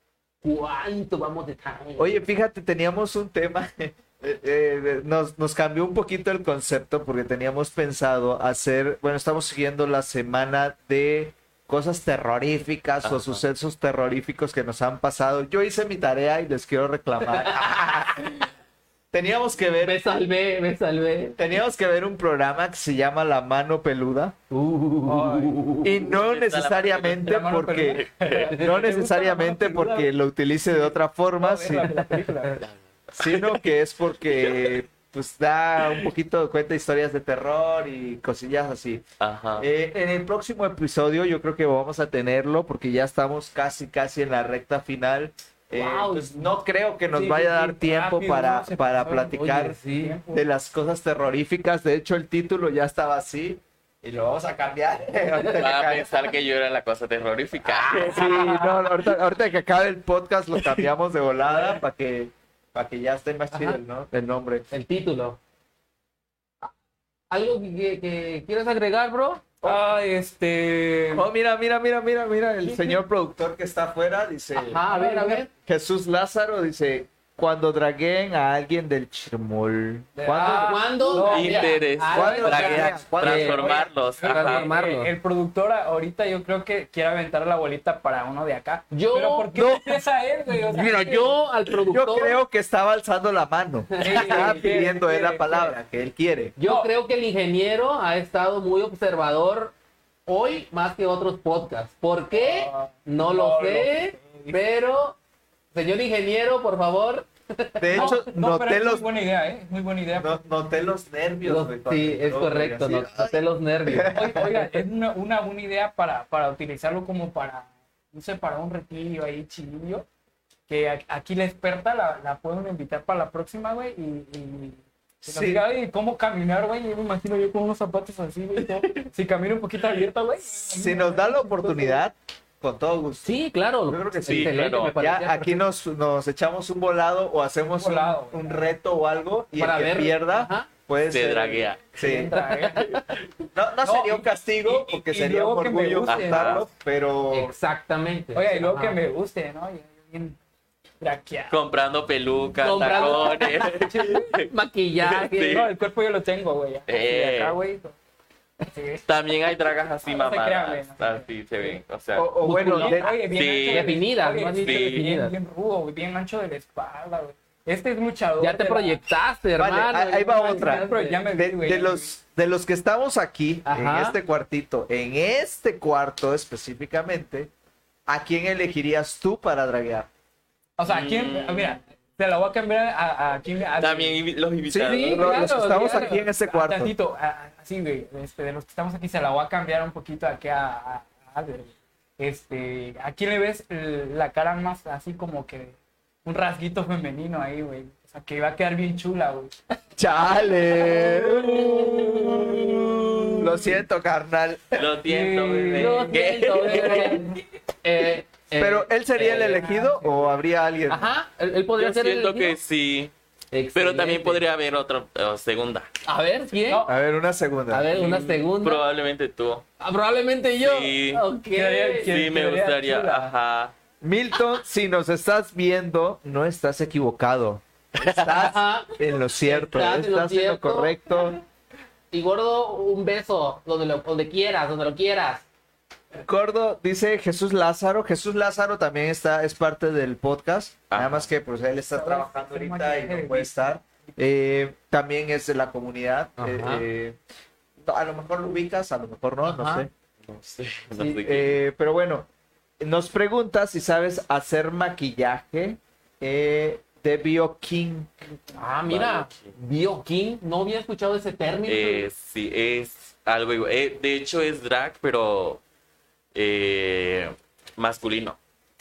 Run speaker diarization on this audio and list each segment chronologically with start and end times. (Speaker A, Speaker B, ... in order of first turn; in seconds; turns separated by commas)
Speaker A: 0.4-2.2, Speaker B: 2.0-18.5, Speaker C: 13.0-13.4, Speaker A: 17.4-18.1, Speaker B: 19.1-20.1, Speaker A: 19.8-21.4, Speaker B: 21.4-24.3, Speaker A: 24.5-26.0, Speaker D: 25.1-25.6, Speaker B: 25.8-32.0, Speaker C: 26.1-28.5, Speaker D: 27.2-30.1, Speaker D: 30.7-32.6, Speaker C: 32.6-33.6, Speaker B: 33.2-39.0, Speaker C: 34.3-34.8, Speaker C: 39.2-39.7, Speaker B: 39.6-49.8, Speaker A: 45.7-46.4, Speaker D: 47.1-50.4, Speaker A: 49.3-50.2, Speaker B: 50.3-56.1, Speaker C: 55.4-58.4, Speaker A: 57.7-58.6, Speaker B: 57.9-64.6, Speaker D: 58.1-58.6, Speaker A: 63.5-63.8, Speaker A: 64.7-65.4, Speaker A: 67.3-69.5, Speaker D: 69.6-71.3, Speaker B: 71.1-74.8, Speaker D: 72.6-73.0, Speaker A: 74.5-75.5, Speaker D: 74.8-75.5, Speaker B: 75.7-80.9, Speaker D: 80.2-81.9, Speaker A: 80.3-83.7, Speaker C: 81.2-84.7, Speaker B: 82.1-83.9, Speaker D: 84.2-91.4, Speaker A: 84.3-85.1, Speaker A: 88.9-89.8, Speaker B: 89.5-90.0, Speaker A: 90.6-92.4, Speaker B: 91.9-96.5, Speaker A: 94.0-94.7, Speaker D: 94.0-95.7, Speaker A: 96.6-99.7, Speaker D: 96.6-96.9, Speaker A: 100.3-105.2, Speaker D: 102.3-104.0, Speaker A: 105.7-108.2, Speaker B: 107.8-109.0, Speaker D: 107.9-110.4, Speaker B: 110.2-114.7, Speaker A: 111.5-114.5, Speaker D: 114.1-120.0, Speaker D: 120.7-132.0, Speaker B: 125.2-125.6, Speaker B: 130.7-133.3, Speaker A: 133.2-135.6, Speaker B: 133.9-142.4, Speaker C: 134.3-135.0, Speaker D: 137.8-138.7, Speaker A: 139.6-140.7, Speaker C: 141.1-141.9, Speaker D: 141.9-142.9, Speaker A: 142.2-143.1, Speaker B: 143.5-147.5, Speaker D: 143.8-146.7, Speaker C: 146.0-146.6, Speaker A: 147.3-149.0, Speaker D: 148.3-150.4, Speaker D: 151.0-151.6, Speaker C: 151.5-154.5, Speaker A: 152.6-153.7, Speaker D: 152.8-154.3, Speaker A: 154.3-155.7, Speaker C: 155.0-155.7, Speaker D: 155.5-157.9, Speaker C: 156.9-157.6, Speaker D: 158.6-159.0, Speaker C: 159.1-162.3, Speaker D: 160.1-161.8, Speaker B: 162.1-163.1, Speaker A: 162.4-165.3, Speaker D: 162.7-169.0, Speaker C: 163.3-164.0, Speaker C: 164.5-165.1, Speaker A: 168.4-171.2, Speaker B: 169.6-177.5, Speaker D: 170.5-172.1, Speaker A: 173.7-174.2, Speaker B: 178.1-180.1, Speaker D: 180.8-184.2, Speaker C: 180.9-181.8, Speaker C: 183.8-185.9, Speaker B: 184.7-186.9, Speaker D: 184.8-199.6, Speaker B: 200.0-204.9, Speaker A: 200.7-203.6, Speaker C: 204.7-207.3, Speaker D: 205.1-207.4, Speaker A: 205.7-209.8, Speaker B: 208.6-211.1, Speaker D: 209.3-210.3, Speaker A: 210.9-212.6, Speaker C: 211.8-213.1, Speaker A: 213.5-214.4, Speaker C: 213.8-215.9, Speaker A: 216.1-216.9, Speaker D: 216.5-217.0, Speaker B: 216.9-217.9, Speaker A: 217.7-218.8, Speaker C: 217.8-219.6, Speaker A: 219.8-222.2, Speaker C: 220.6-221.2, Speaker D: 221.5-223.3, Speaker C: 222.1-223.7, Speaker B: 224.0-231.4, Speaker C: 228.0-228.3, Speaker A: 228.3-231.1, Speaker A: 232.1-235.4, Speaker B: 236.2-247.2, Speaker C: 240.9-241.3, Speaker D: 241.9-243.7, Speaker A: 246.4-246.9, Speaker B: 247.8-249.9, Speaker A: 249.4-249.9, Speaker C: 250.2-251.6, Speaker B: 251.2-252.3, Speaker B: 252.8-258.1, Speaker A: 258.6-262.1, Speaker C: 258.9-259.5, Speaker C: 261.6-265.6, Speaker C: 266.3-268.4